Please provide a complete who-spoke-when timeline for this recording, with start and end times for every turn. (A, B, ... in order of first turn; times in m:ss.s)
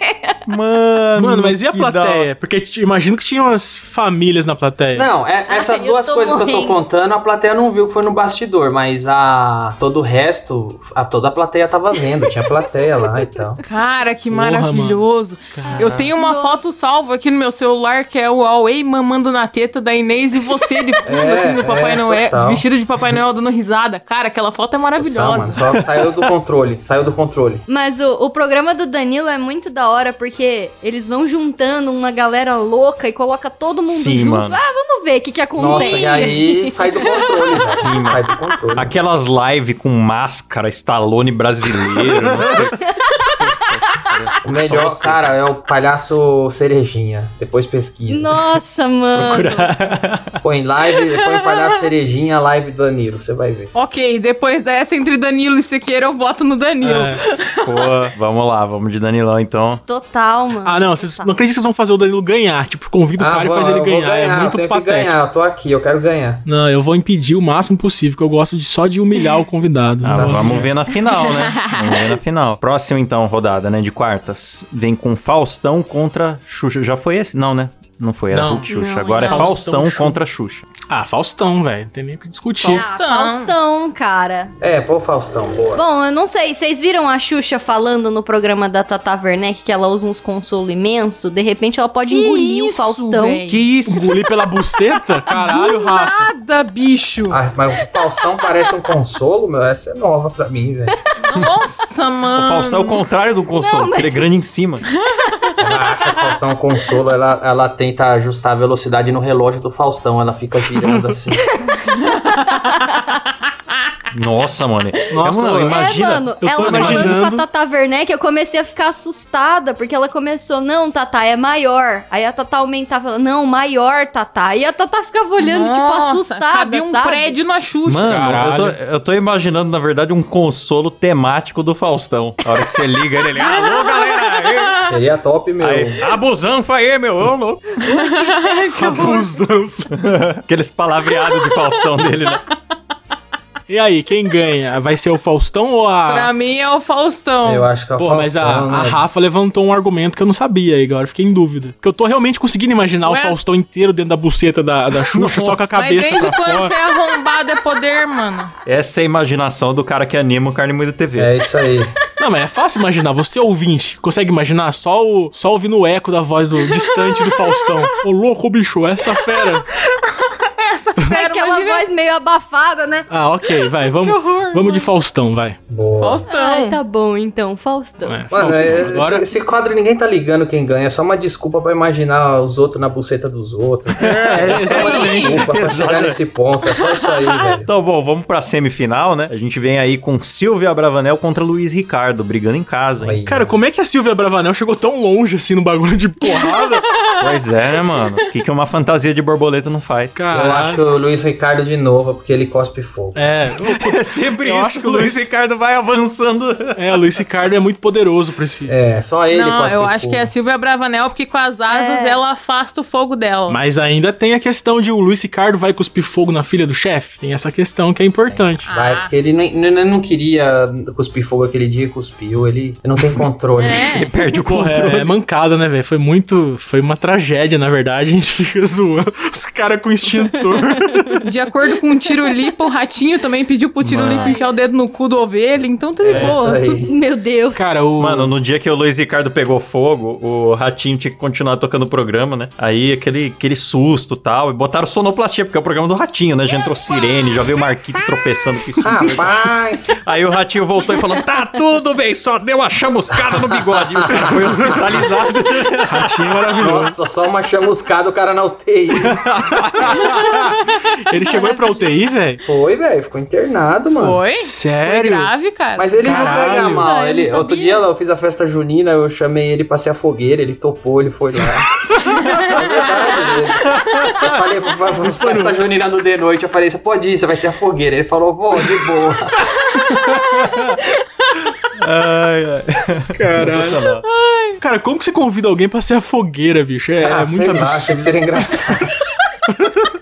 0:00.5-0:02.3 A
0:01.2-0:05.1 B
0:05.0-0:13.6 C
0:05.5-0:06.8 D
0:13.6-0:25.6 E
0:14.3-0:15.0 B
0:15.5-0:15.9 B
0:15.9-0:16.6 D
0:21.0-0:22.6 C
0:25.0-0:27.6 C
0:25.7-0:26.2 A
0:27.7-0:37.9 D
0:33.9-0:34.6 A
0:35.6-0:38.9 C
0:35.7-0:36.4 E
0:37.6-0:38.2 A
0:38.8-0:45.4 A
0:43.0-0:43.6 D
0:44.4-0:48.4 C
0:48.1-0:49.7 D
0:49.2-0:50.4 A
0:50.4-0:53.7 C
0:51.0-0:51.8 E
0:53.8-0:58.0 E
0:56.8-0:57.2 B
0:57.6-0:59.8 A
0:59.9-1:01.4 D
1:00.6-1:05.2 B
1:03.2-1:06.4 C
1:06.5-1:10.7 B
1:10.0-1:20.7 A
1:10.1-1:10.7 C
1:11.1-1:12.1 E
1:18.3-1:20.2 B
1:18.7-1:19.6 D
1:20.8-1:22.9 B
1:22.6-1:24.5 D
1:22.6-1:23.5 E
1:24.6-1:25.8 C
1:25.7-1:33.4 D
1:32.0-1:33.6 E
1:33.5-1:34.2 A
1:33.9-1:36.3 B
1:35.3-1:37.4 E
1:37.3-1:41.0 C
1:41.2-1:43.0 E
1:42.3-1:44.8 A
1:43.5-1:44.3 D
1:45.6-1:51.5 C
1:50.8-1:51.1 B
1:51.8-1:53.0 E
1:54.1-1:57.2 A
1:55.1-1:55.9 B
1:55.4-2:07.4 D
1:56.4-1:57.4 B
2:05.4-2:08.2 E
2:07.9-2:14.9 A
2:08.0-2:08.8 B
2:13.4-2:14.6 E
2:14.9-2:16.0 C
2:15.6-2:17.8 A
2:17.8-2:19.3 E
2:17.9-2:19.0 D
2:18.7-2:19.9 B
2:19.9-2:22.4 A
2:23.7-2:26.3 B
2:26.1-2:27.7 E
2:27.4-2:29.0 C
2:28.0-2:36.8 B
2:33.0-2:33.4 E
2:35.1-2:35.7 A
2:35.7-2:38.5 E
2:38.6-2:41.3 A
2:41.2-2:41.9 C
2:42.2-2:49.7 B
2:49.9-2:51.9 E
2:51.0-2:53.1 D
2:53.1-2:55.6 B
2:53.9-2:54.9 E
2:55.7-2:56.2 C
2:56.0-2:56.8 E
2:56.3-2:58.2 D
2:58.0-2:59.3 B
2:58.3-3:07.7 C
3:04.0-3:05.4 B
3:04.0-3:06.2 A
3:04.7-3:05.4 E
3:06.7-3:07.5 E
3:07.6-3:13.2 A
3:13.0-3:13.6 C
3:13.2-3:16.8 B
3:16.5-3:20.2 A
3:17.0-3:18.2 E
3:20.1-3:20.8 B
3:20.3-3:23.3 C
3:23.2-3:25.3 B
3:23.6-3:26.9 A
3:26.8-3:28.8 B
3:28.7-3:30.3 C
3:29.3-3:33.6 E
3:31.7-3:32.2 D
3:33.5-3:38.7 B
3:38.6-3:44.0 C
3:38.7-3:39.1 E
3:43.6-3:44.1 E
3:43.9-3:45.1 A
3:44.4-3:51.3 B
3:50.6-3:51.2 D
3:51.2-3:56.8 E
3:53.8-3:54.3 A
3:54.0-3:54.6 D
3:56.1-3:56.4 A
3:56.1-3:56.9 C
3:56.8-3:57.8 D
3:57.5-3:58.3 B
3:58.0-4:09.4 A
4:08.8-4:09.9 C
4:09.9-4:16.6 A
4:14.0-4:14.6 C
4:14.2-4:17.0 B
4:16.6-4:19.2 C
4:19.0-4:20.5 A
4:19.4-4:22.4 B
4:21.1-4:21.6 E
4:22.4-4:24.2 C
4:24.0-4:26.3 E
4:24.3-4:25.3 B
4:25.8-4:31.8 C
4:26.0-4:26.9 B
4:26.1-4:27.8 D
4:32.1-4:33.4 E
4:32.5-4:39.5 C
4:33.7-4:34.4 A
4:35.0-4:35.6 B
4:39.8-4:40.4 E
4:39.9-4:40.8 A
4:41.8-4:44.0 A
4:43.1-4:43.9 B
4:44.1-4:44.6 E
4:44.6-4:48.7 B
4:47.0-4:49.0 C
4:49.5-4:49.8 B